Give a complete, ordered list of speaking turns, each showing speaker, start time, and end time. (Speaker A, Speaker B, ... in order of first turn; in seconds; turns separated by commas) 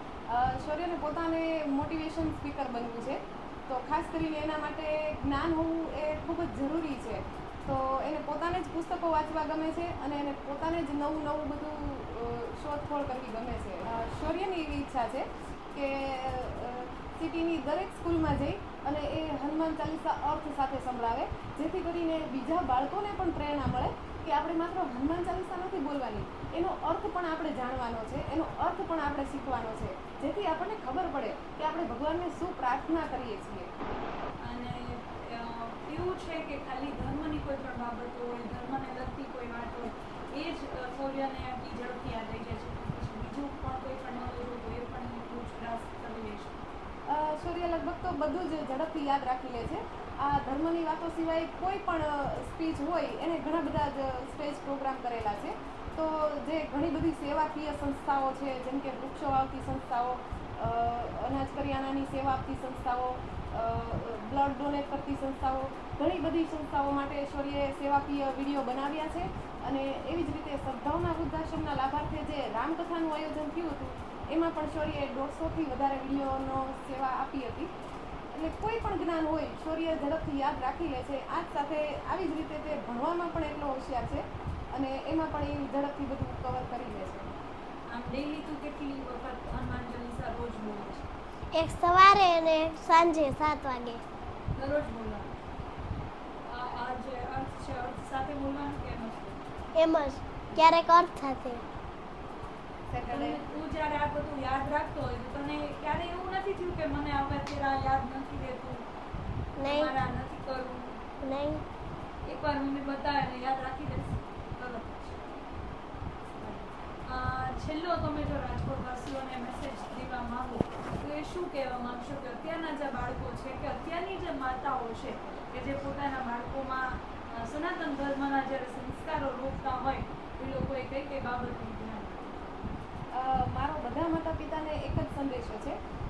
Speaker A: 0.3-33.7, Speaker B: 34.4-46.6, Speaker A: 47.1-77.7, Speaker A: 78.3-87.3, Speaker B: 87.9-91.1, Speaker C: 91.5-94.0, Speaker B: 94.6-95.3, Speaker B: 96.4-99.4, Speaker C: 99.8-101.6, Speaker A: 102.9-103.4, Speaker B: 103.1-108.9, Speaker C: 109.6-109.9, Speaker B: 109.6-111.0, Speaker C: 111.2-111.6, Speaker B: 112.3-115.2, Speaker B: 116.4-132.8, Speaker A: 133.1-135.8